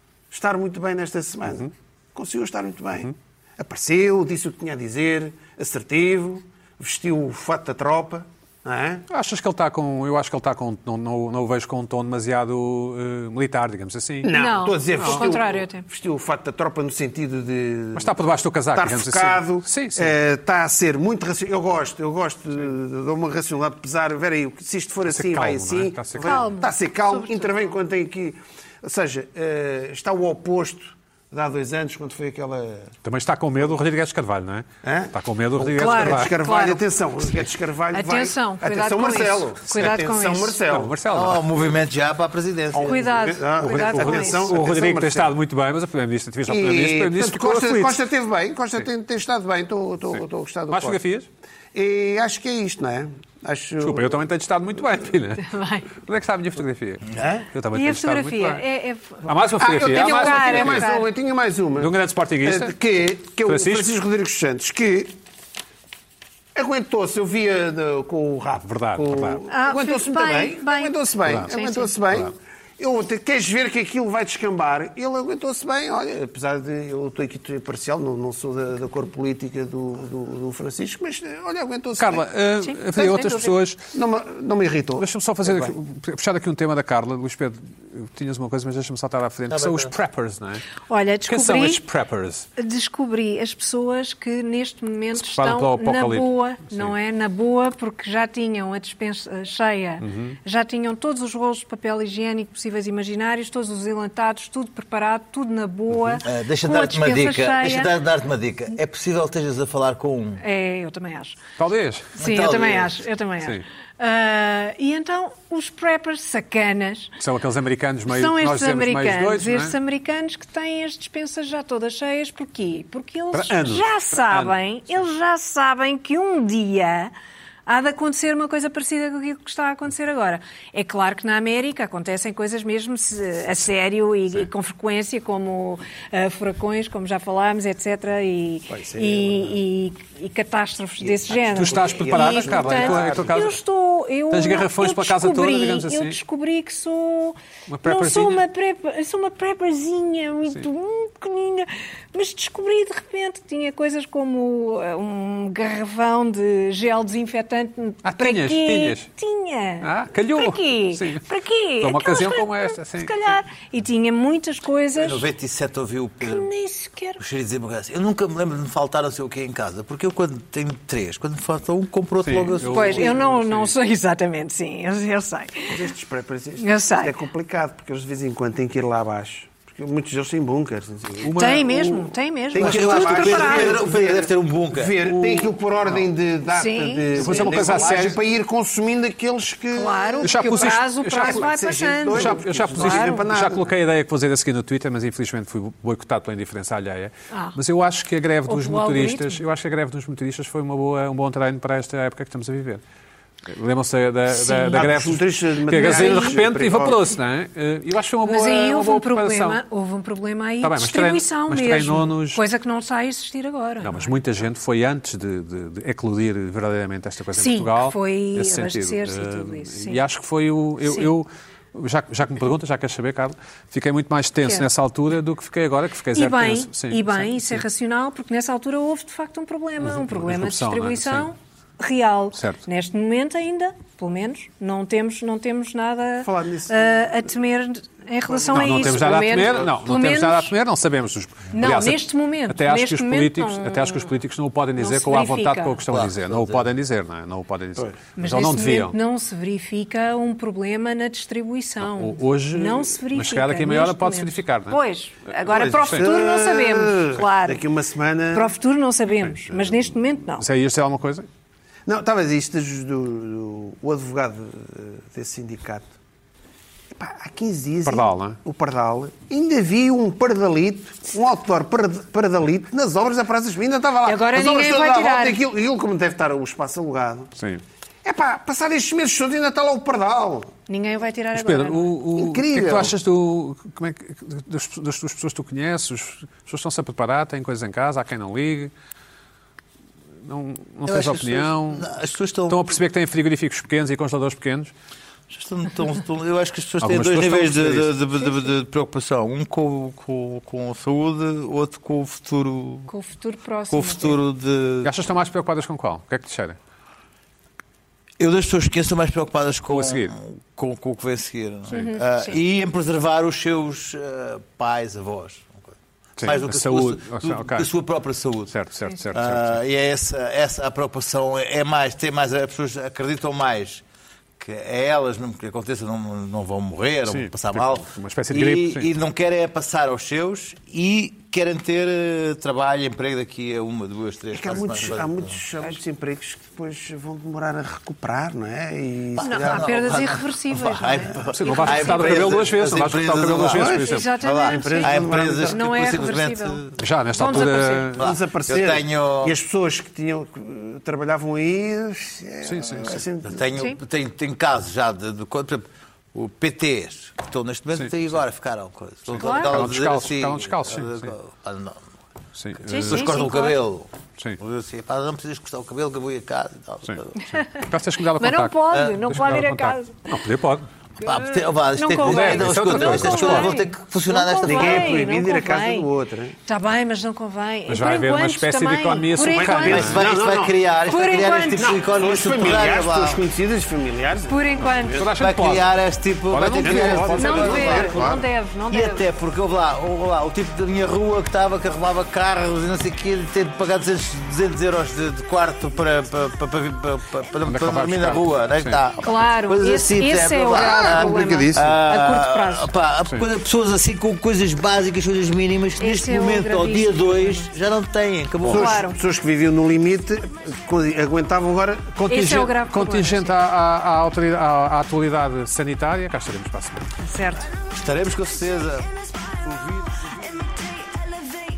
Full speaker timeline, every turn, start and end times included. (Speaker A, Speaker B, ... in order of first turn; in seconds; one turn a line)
Speaker A: 0.3-9.0
Speaker B: 9.1-14.3
Speaker A: 14.2-18.2
Speaker C: 14.3-15.8
Speaker B: 15.0-15.3
Speaker B: 17.9-20.1
Speaker A: 18.7-32.9
Speaker B: 25.1-26.4
Speaker C: 26.2-27.7
Speaker B: 33.0-36.3
Speaker A: 34.8-40.9
Speaker C: 35.7-36.9
Speaker C: 37.9-40.6
Speaker B: 40.7-41.7
Speaker D: 41.1-43.0
Speaker A: 42.7-45.4
Speaker C: 42.8-44.5
Speaker B: 43.6-48.0
Speaker A: 46.5-51.0
Speaker B: 50.1-51.3
Speaker A: 51.7-54.2
Speaker B: 53.8-58.6
Speaker C: 55.4-55.9
Speaker A: 57.1-57.5
Speaker C: 57.7-61.1
Speaker B: 59.2-60.9
Speaker A: 59.6-65.2
Speaker B: 61.8-62.7
Speaker B: 63.5-63.9
Speaker A: 66.5-82.3
Speaker B: 68.6-69.4
Speaker C: 69.5-72.0
Speaker B: 71.3-71.5
Speaker B: 82.0-83.8
Speaker C: 82.6-83.6
Speaker A: 83.9-85.7
Speaker B: 85.0-90.6
Speaker D: 89.5-89.9
Speaker C: 90.9-91.8
Speaker B: 91.3-92.5
Speaker C: 92.6-107.9
Speaker B: 95.1-96.9
Speaker B: 100.0-100.4
Speaker D: 106.2-110.4
Speaker C: 110.4-111.4
Speaker B: 111.6-112.2
Speaker D: 112.2-113.0
Speaker C: 112.2-117.2
Speaker B: 117.2-119.8
Speaker C: 118.1-127.1
Speaker B: 123.3-124.6
Speaker C: 127.7-165.3
Speaker A: 138.7-139.6
Speaker A: 141.0-143.4
Speaker B: 141.5-143.6
Speaker B: 144.3-146.2
Speaker B: 147.7-148.4
Speaker B: 158.0-159.1
Speaker B: 159.8-161.2
Speaker B: 161.8-163.3
Speaker D: 164.9-166.5
Speaker C: 166.2-167.2
Speaker D: 167.2-173.1
Speaker B: 172.2-173.7
Speaker C: 172.7-175.9
Speaker A: 175.7-193.7
Speaker C: 176.6-177.2
Speaker B: 181.2-181.7
Speaker C: 181.3-183.8
Speaker D: 182.6-185.0
Speaker B: 185.0-185.5
Speaker C: 186.5-187.9
Speaker B: 187.2-188.2
Speaker C: 189.8-193.2
Speaker B: 190.2-191.5
Speaker B: 192.1-202.8
Speaker C: 197.3-197.6
Speaker C: 198.5-199.4
Speaker B: 203.5-209.6
Speaker C: 204.4-204.9
Speaker A: 204.7-207.0
Speaker C: 205.7-206.4
Speaker C: 208.2-214.2
Speaker B: 210.6-212.4
Speaker B: 213.8-227.6
Speaker C: 217.4-220.0
Speaker C: 220.8-221.1
Speaker C: 226.1-240.5
Speaker B: 229.8-231.3
Speaker B: 232.3-232.6
Speaker A: 236.2-237.2
Speaker A: 238.3-239.1
Speaker B: 238.5-248.9
Speaker C: 241.5-244.1
Speaker C: 244.8-245.8
Speaker D: 245.9-246.7
Speaker C: 248.2-257.6
Speaker B: 251.9-256.1
Speaker A: 255.5-258.5
Speaker C: 258.3-260.4
Speaker B: 259.3-261.3
Speaker A: 261.9-265.9
Speaker A: 266.9-277.3
Speaker B: 267.9-268.4
Speaker C: 274.1-275.4
Speaker B: 277.4-277.6
Speaker A: 278.0-280.5
Speaker C: 280.7-282.0
Speaker B: 281.3-288.7
Speaker A: 282.1-282.9
Speaker B: 290.2-291.9
Speaker D: 290.9-292.7
Speaker B: 292.5-294.7
Speaker D: 295.3-302.9
Speaker B: 296.8-298.0
Speaker C: 302.9-304.2
Speaker D: 303.7-304.9
Speaker B: 304.8-306.6
Speaker D: 308.2-318.6
Speaker B: 309.7-310.1
Speaker C: 311.7-312.4
Speaker B: 316.2-317.7
Speaker B: 318.5-319.6
Speaker D: 319.1-323.8
Speaker D: 324.4-335.3
Speaker B: 327.1-328.9
Speaker A: 334.3-339.8
Speaker D: 339.1-347.4
Speaker C: 339.2-342.2
Speaker B: 341.3-344.1
Speaker A: 343.5-345.8
Speaker C: 343.8-347.9
Speaker B: 346.8-348.0
Speaker D: 348.0-349.4
Speaker A: 348.0-353.5
Speaker B: 352.4-353.0
Speaker D: 353.2-361.8
Speaker B: 357.8-358.2
Speaker B: 359.1-361.2
Speaker C: 359.2-359.5
Speaker B: 362.4-363.3
Speaker C: 362.7-363.6
Speaker D: 362.8-367.4
Speaker B: 366.8-370.7
Speaker C: 368.2-370.1
Speaker D: 368.7-369.0
Speaker D: 371.0-375.0
Speaker C: 371.0-375.9
Speaker B: 372.0-373.6
Speaker A: 374.4-376.4
Speaker C: 376.5-379.9
Speaker B: 377.7-380.0
Speaker A: 379.4-380.6
Speaker D: 379.6-383.2
Speaker C: 380.9-381.8
Speaker A: 381.6-384.6
Speaker C: 384.3-385.1
Speaker B: 384.8-385.7
Speaker D: 385.2-408.8
Speaker B: 386.3-387.8
Speaker A: 386.6-388.2
Speaker C: 387.1-389.0
Speaker B: 397.5-398.8
Speaker C: 399.0-402.7
Speaker A: 400.6-401.7
Speaker C: 405.8-407.5
Speaker A: 408.4-412.4
Speaker C: 408.5-409.0
Speaker B: 412.1-416.9
Speaker C: 412.1-413.3
Speaker C: 417.0-417.5
Speaker D: 417.6-420.7